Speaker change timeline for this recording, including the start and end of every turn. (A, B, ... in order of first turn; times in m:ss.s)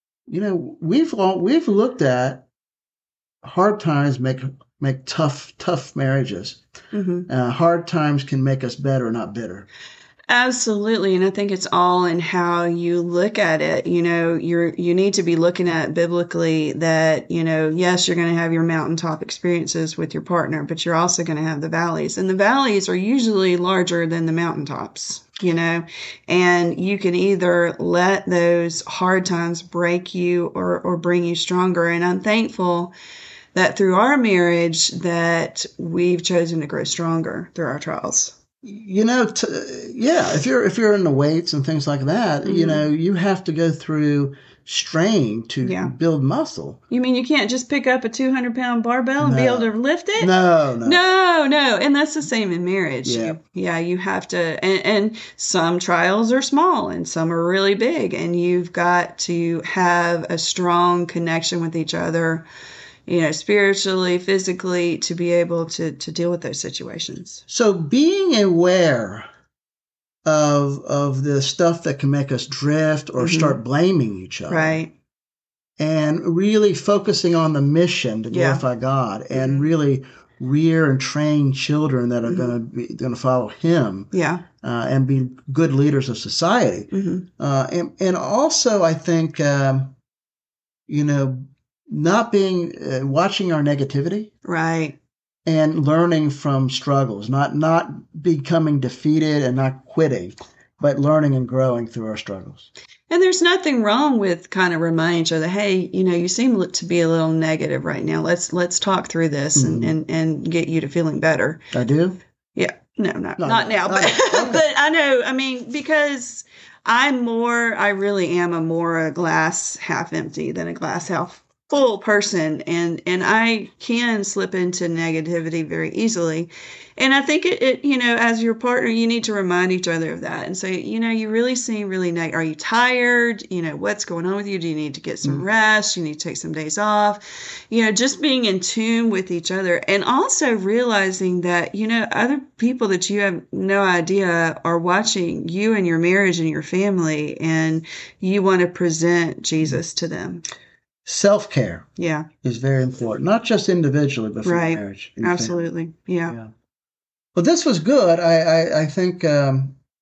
0:00.3-0:02.4 A
0:03.4-0:06.6 A
0:06.9-0:07.3 B
0:07.3-0:09.6 A
0:10.3-0:32.9 B
0:33.5-0:38.3 B
0:38.6-0:46.8 A
0:42.4-0:42.8 B
0:45.6-0:45.9 B
0:46.9-1:02.5 B
0:49.2-0:51.0 A
0:53.0-0:53.4 A
1:03.1-1:07.4 B
1:07.5-1:09.3 A
1:10.2-1:14.8 A
1:13.2-1:13.6 B
1:14.5-1:14.9 B
1:15.8-1:29.9 A
1:18.3-1:18.6 B
1:19.3-1:19.7 B
1:22.2-1:22.5 B
1:24.1-1:24.4 B
1:26.9-1:27.2 B
1:30.9-1:34.3 A
1:34.4-1:35.0 B
1:35.4-1:42.7 A
1:43.1-1:51.6 B
1:49.5-1:50.0 A
1:51.7-1:52.2 A
1:52.5-2:30.4 B
1:53.4-1:54.6 A
2:31.0-2:31.9 A
2:32.0-2:32.3 B
2:32.4-2:35.6 A
2:34.4-2:36.4 B
2:37.3-2:39.8 A